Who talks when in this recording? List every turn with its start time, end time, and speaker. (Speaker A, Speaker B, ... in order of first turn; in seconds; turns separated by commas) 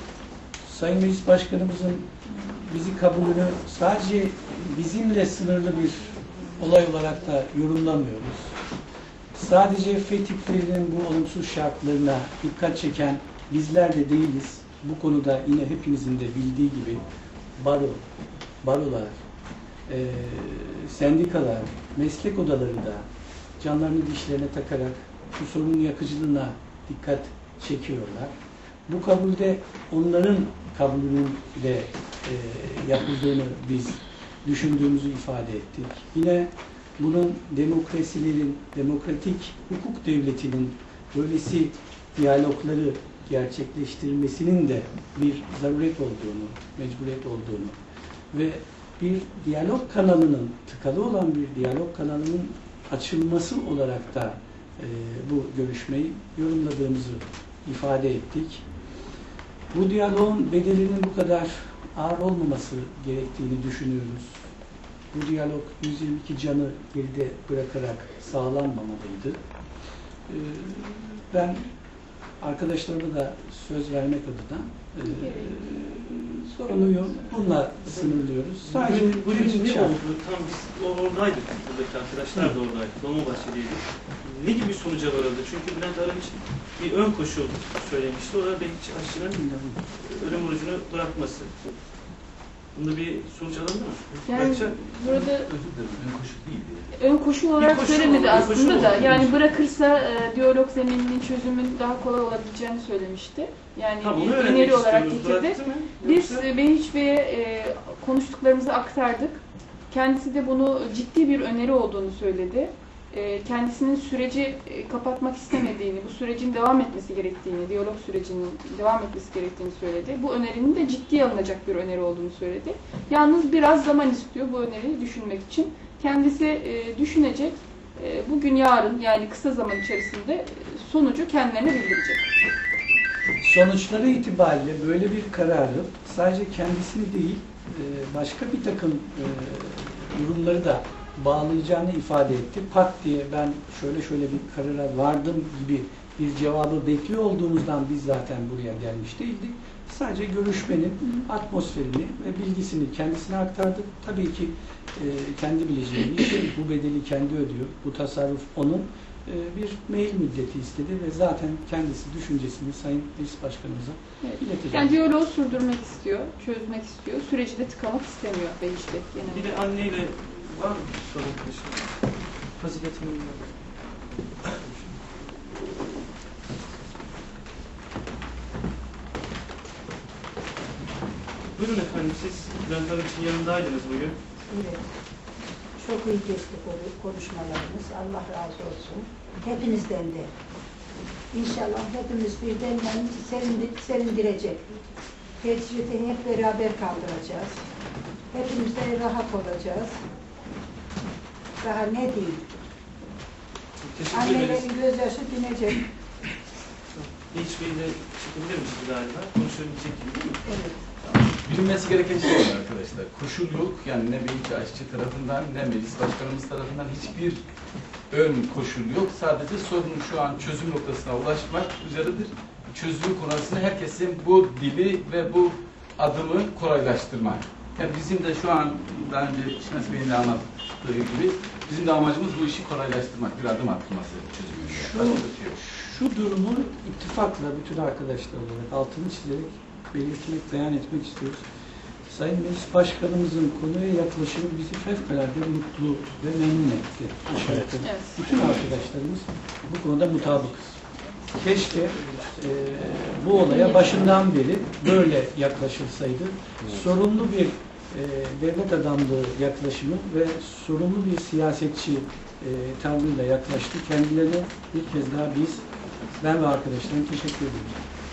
Speaker A: 0.6-8.6, Speaker A: 9.3-17.0, Speaker A: 17.6-18.0, Speaker A: 18.6-19.1, Speaker A: 19.9-23.1, Speaker A: 23.6-28.3, Speaker A: 28.9-47.8, Speaker A: 48.3-58.6, Speaker A: 59.7-64.5, Speaker A: 65.1-69.4, Speaker A: 70.3-71.7, Speaker A: 72.4-80.0, Speaker B: 75.0-77.3, Speaker C: 77.8-91.8, Speaker C: 92.7-94.8, Speaker B: 94.2-95.5, Speaker D: 95.1-96.9, Speaker B: 96.9-132.3, Speaker C: 97.6-99.6, Speaker C: 104.0-106.5, Speaker A: 133.4-165.0, Speaker B: 164.2-169.6, Speaker C: 169.2-172.0, Speaker C: 172.6-173.6, Speaker C: 174.2-175.3, Speaker C: 181.4-184.2, Speaker E: 184.5-184.9, Speaker E: 185.8-190.3, Speaker E: 191.3-194.6, Speaker E: 195.4-197.6, Speaker E: 198.3-200.0, Speaker E: 201.6-202.4, Speaker C: 203.8-204.7, Speaker E: 204.1-205.8, Speaker C: 207.0-210.4, Speaker E: 210.5-210.8, Speaker D: 211.4-217.4, Speaker D: 218.1-235.6, Speaker A: 234.7-241.4, Speaker A: 242.1-250.7, Speaker B: 247.8-248.2, Speaker A: 251.3-265.6, Speaker B: 253.4-254.2, Speaker A: 266.2-267.8